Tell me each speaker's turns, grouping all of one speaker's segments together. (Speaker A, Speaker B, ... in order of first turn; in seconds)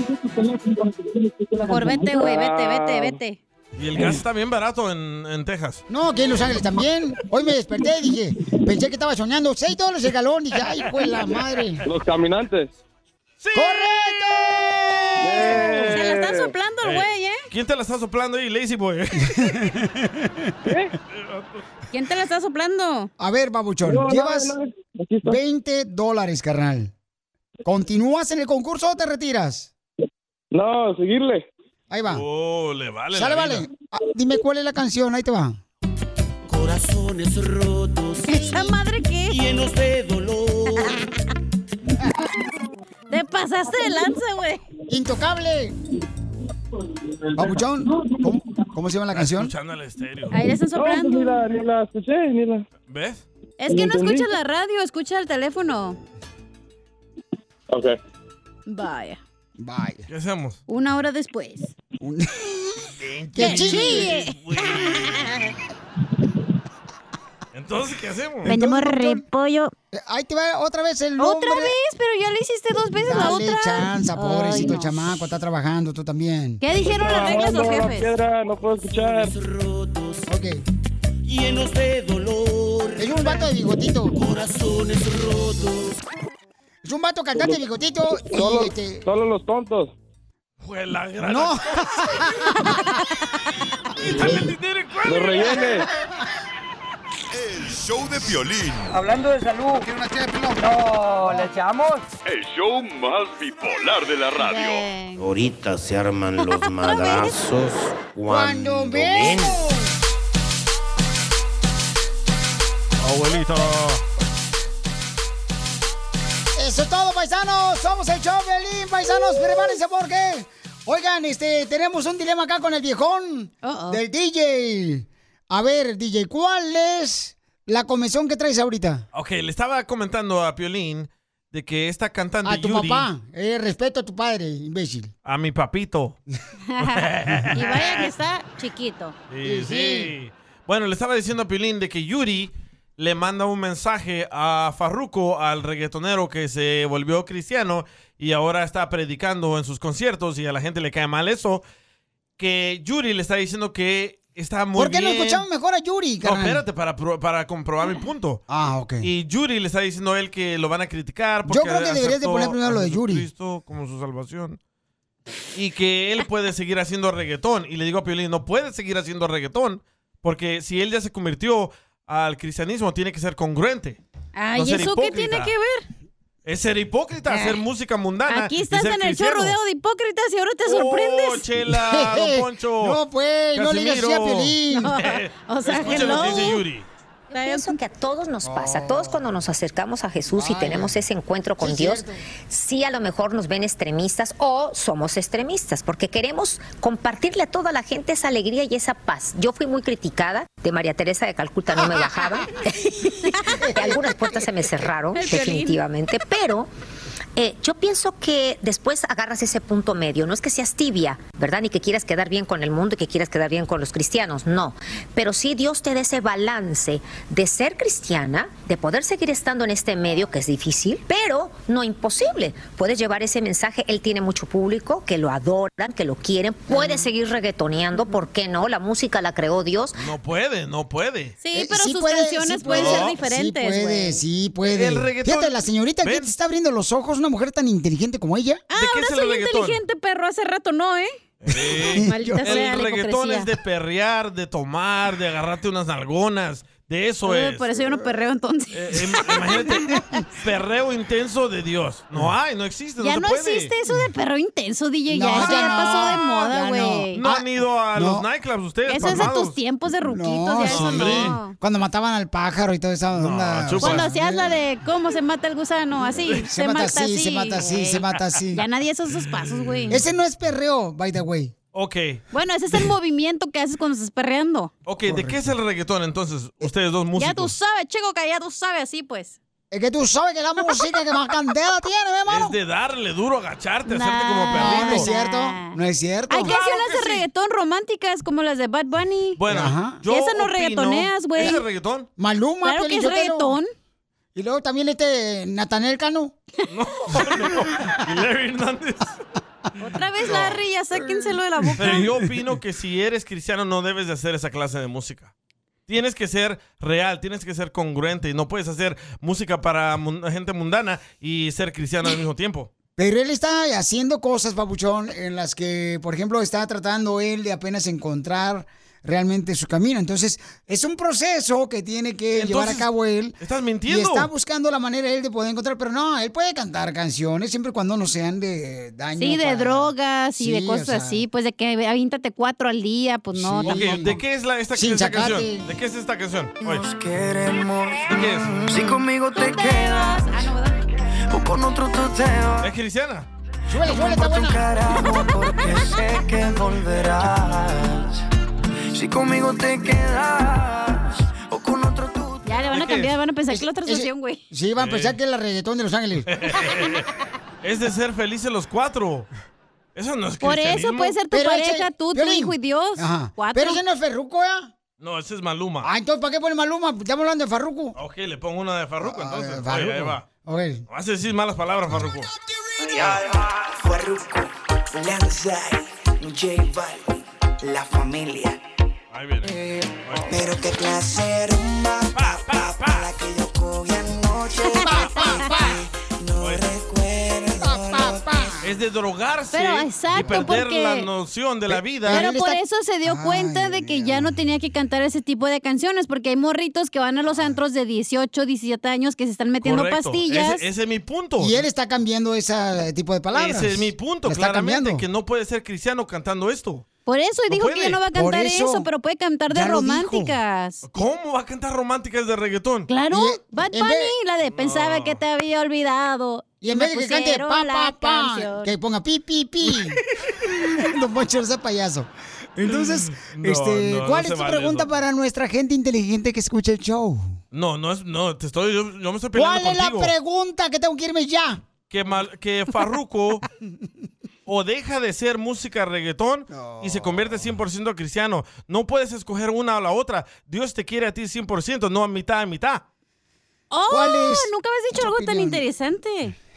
Speaker A: 1.4-3.2, 11.8-12.7, 15.2-16.5, 20.6-20.9, 23.8-25.4, 30.5-31.4, 50.7-52.6, 53.7-54.3, 57.7-58.0, 76.8-79.3, 87.3-87.6, 88.2-89.9, 95.1-95.9
Speaker B: 1.6-3.4, 15.4-17.4, 21.9-23.1, 38.3-39.4, 43.1-44.6, 50.3-51.4, 53.6-56.0, 58.7-59.2, 60.7-61.7, 63.4-64.3, 68.5-69.7, 71.2-75.0, 76.6-78.1, 104.4-105.2, 106.6-107.3, 123.6-124.0, 136.7-139.2, 174.3-175.8, 177.3-177.6, 178.3-181.4, 184.7-186.6, 187.3-187.7, 205.1-205.8, 231.4-234.2, 238.7-241.1, 241.9-243.5, 247.2-249.7, 253.0-257.2, 258.9-261.5, 263.8-270.0, 272.3-274.7, 277.1-279.4, 283.9-285.8, 286.3-289.4, 290.1-291.6, 292.6-293.7, 299.8-302.1, 329.2-334.0, 339.3-340.8, 352.4-354.4, 360.4-363.8, 384.8-385.3, 389.5-391.1, 392.1-400.6, 407.1-410.8, 412.9-418.7, 443.7-446.3
Speaker C: 3.8-5.8, 13.4-14.8, 16.8-19.7, 21.1-21.6, 32.1-33.7, 49.1-50.4, 52.9-53.2, 60.1-60.6, 63.0-65.5, 67.5-68.5, 90.6-92.4, 94.0-95.7, 113.0-114.0, 129.1-133.1, 135.2-136.2, 136.8-138.1, 139.3-151.6, 152.4-155.4, 156.2-158.4, 159.0-164.6, 165.5-174.0, 174.5-175.5, 176.4-179.6, 180.7-183.0, 183.5-186.8, 229.9-231.3, 232.7-233.1, 234.6-236.3, 238.7-239.8, 241.4-247.9, 248.7-253.7, 257.2-259.6, 260.6-261.4, 263.1-264.1, 269.4-269.9, 271.7-272.2, 274.9-277.5, 282.2-285.1, 286.4-287.2, 289.4-292.1, 296.7-299.2, 301.8-305.3, 305.9-312.7, 322.3-322.9, 323.4-324.3, 333.6-336.8, 338.1-338.5, 342.6-343.3, 352.7-353.1, 354.8-355.1, 356.3-357.0, 357.6-359.3, 359.9-361.2, 365.0-365.9, 367.9-370.3, 370.9-372.3, 379.1-379.5, 380.0-380.4, 382.1-383.1, 388.6-392.3, 399.6-401.6, 403.3-406.8, 407.5-408.0, 410.9-412.9, 414.5-415.2, 422.6-424.9, 427.5-430.1, 431.9-433.4, 434.4-442.8
Speaker D: 5.9-11.8, 13.5-15.8, 19.3-20.4, 23.2-24.5, 25.2-26.9, 27.6-29.7, 31.9-32.2, 33.1-35.6, 38.3-38.7, 44.9-45.7, 47.4-49.5, 59.6-60.0, 62.0-64.1, 68.4-69.2, 69.9-71.7, 73.0-76.6, 80.3-80.6, 83.0-84.2, 86.8-89.0, 91.2-92.8, 108.2-110.0, 116.5-129.1, 132.4-135.1, 139.4-140.1, 154.8-156.6, 158.5-159.1, 161.4-163.2, 181.7-185.0, 188.4-189.3, 190.3-191.0, 191.6-192.2, 203.6-204.7, 231.5-238.6, 241.7-242.7, 255.1-258.2, 259.0-259.3, 260.1-264.6, 266.3-268.6, 269.9-271.5, 275.0-275.5, 279.7-282.5, 284.5-286.6, 289.5-290.0, 292.2-293.6, 294.3-296.3, 300.9-302.2, 313.0-331.2, 333.3-334.2, 334.7-335.7, 343.7-344.8, 353.5-356.3, 361.3-364.7, 365.8-368.0, 369.0-370.8, 384.8-385.7, 387.6-388.6, 390.1-390.5, 391.7-394.4, 401.4-405.0, 408.1-408.9, 409.5-410.4, 413.1-414.1, 416.6-420.0, 420.7-427.4, 429.3-431.6, 436.5-437.2, 443.9-445.6
Speaker E: 36.5-38.4, 39.3-41.0, 78.9-80.3, 81.2-83.5, 84.1-85.9, 336.6-340.3, 341.3-342.7, 343.9-348.2, 348.9-352.6, 372.8-378.6, 379.4-388.6
Speaker F: 98.2-98.6, 102.2-104.8
Speaker G: 98.9-102.1
Speaker H: 105.2-109.6
Speaker I: 187.3-206.7, 207.3-230.0